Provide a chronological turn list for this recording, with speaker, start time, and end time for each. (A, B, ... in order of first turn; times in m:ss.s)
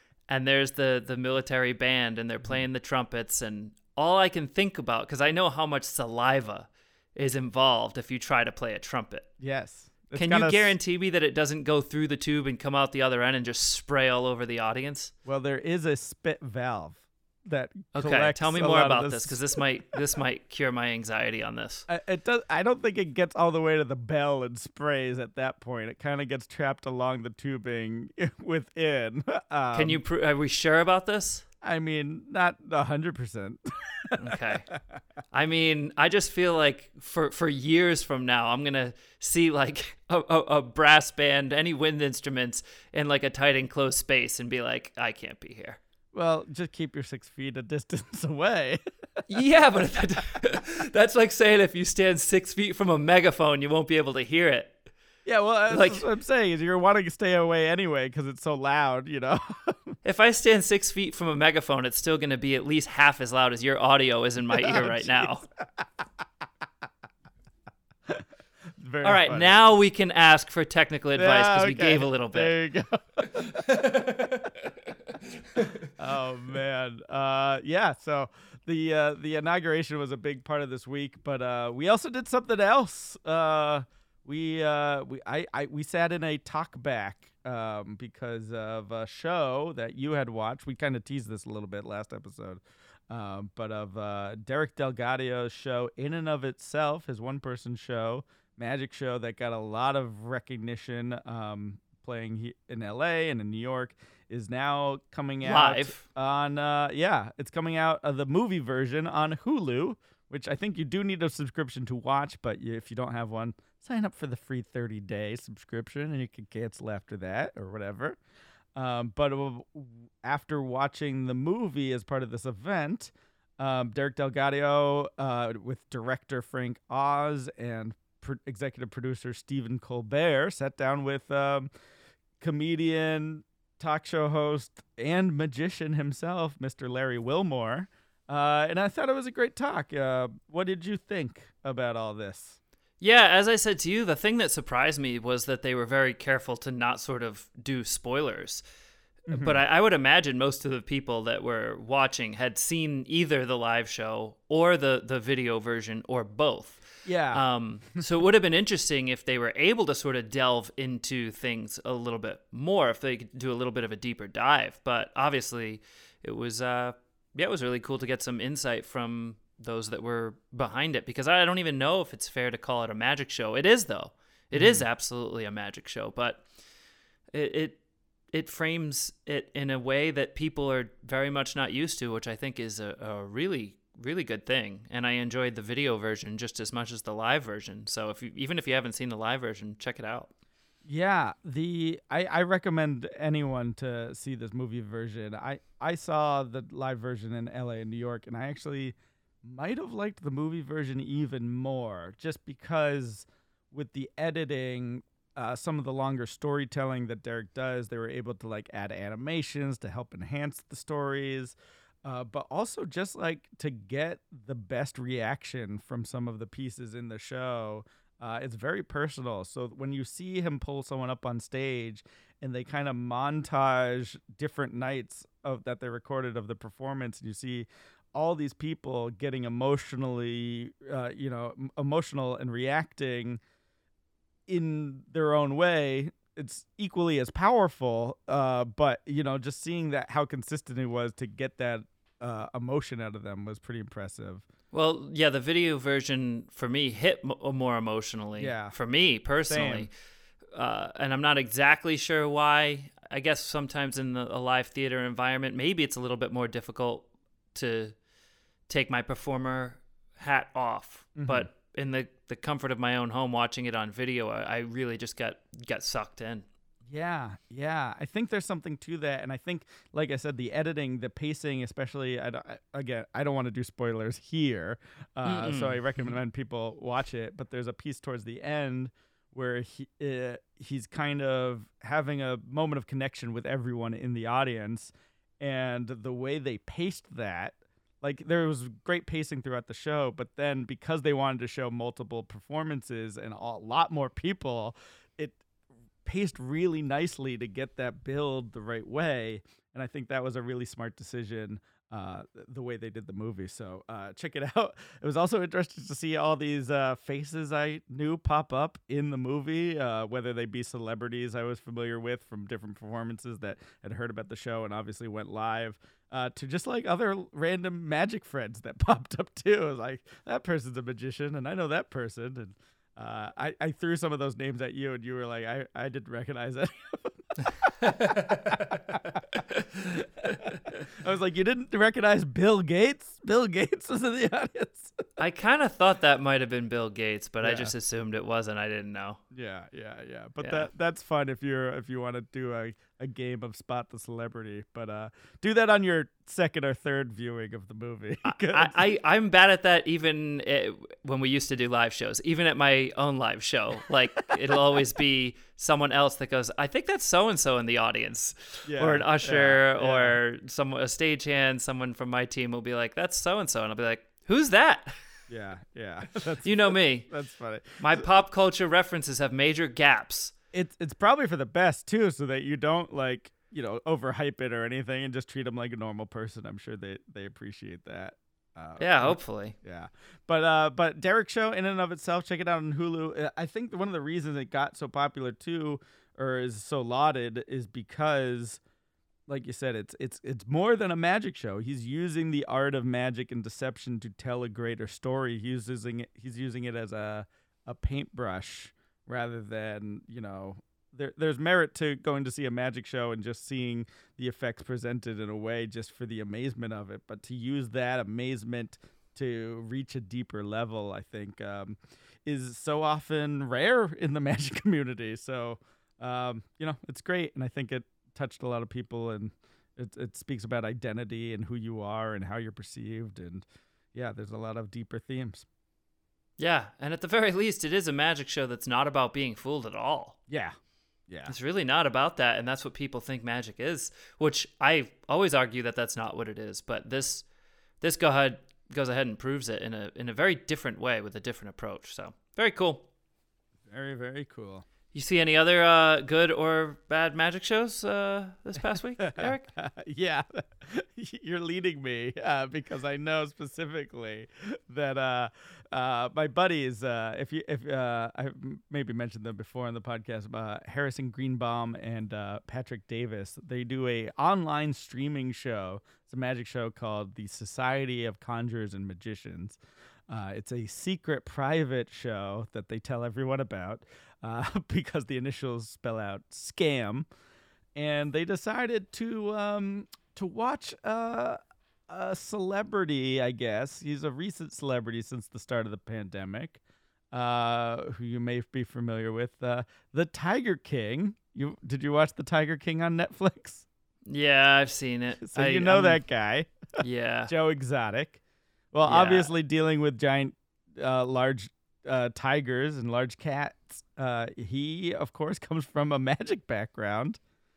0:00.3-0:09.3 A
0:09.4-0:10.7 B
0:10.1-0:15.1 A
0:15.2-0:19.6 B
0:17.9-0:21.8 A
0:21.9-0:30.0 B
0:29.7-0:31.4 A
0:31.6-0:35.0 B
0:34.2-0:34.7 A
0:35.3-0:45.8 A
0:46.1-0:48.8 B
0:49.3-0:54.8 A
0:55.2-1:00.0 B
0:55.7-0:56.0 A
1:00.0-1:05.4 A
1:04.5-1:05.9 B
1:08.8-1:09.5 B
1:09.0-1:12.5 A
1:11.1-1:14.2 B
1:13.7-1:14.4 A
1:15.9-1:58.2 B
1:45.4-1:46.0 A
1:58.7-2:11.7 B
2:12.4-2:22.6 B
2:23.0-2:28.6 A
2:29.3-2:29.6 B
2:29.3-2:56.4 A
2:37.0-2:37.4 B
2:54.5-2:54.8 B
2:57.3-2:57.8 A
2:58.3-3:10.3 A
3:10.8-3:53.4 B
3:54.5-4:04.4 B
4:04.7-4:09.9 A
4:08.4-4:08.7 B
4:09.4-4:09.9 B
4:10.5-4:18.0 A
4:18.7-4:26.4 A
4:21.2-4:21.5 B
4:26.9-4:55.4 B
4:35.2-4:36.1 A
4:56.0-5:29.2 B
5:27.8-5:29.0 A
5:29.5-5:30.8 A
5:31.0-5:35.0 B
5:35.2-5:39.2 A
5:37.4-5:37.7 B
5:39.3-5:48.8 B
5:40.4-5:40.7 A
5:48.2-6:05.0 A
5:58.6-6:00.2 B
6:05.3-6:08.1 B
6:06.4-6:07.1 A
6:07.8-6:10.3 A
6:10.5-6:28.6 B
6:18.8-6:19.5 A
6:29.3-7:05.4 B
7:06.4-7:10.2 A
7:10.3-7:10.5 B
7:11.2-7:17.2 A
7:17.8-7:22.8 A
7:23.7-7:24.6 B
7:24.9-7:29.5 A
7:29.0-7:57.1 B
7:57.8-8:06.6 B
8:07.1-8:13.6 B
8:14.1-8:16.0 A
8:15.2-8:16.5 B
8:16.8-8:17.3 A
8:17.3-8:18.2 B
8:18.7-8:27.2 B
8:18.8-8:19.3 A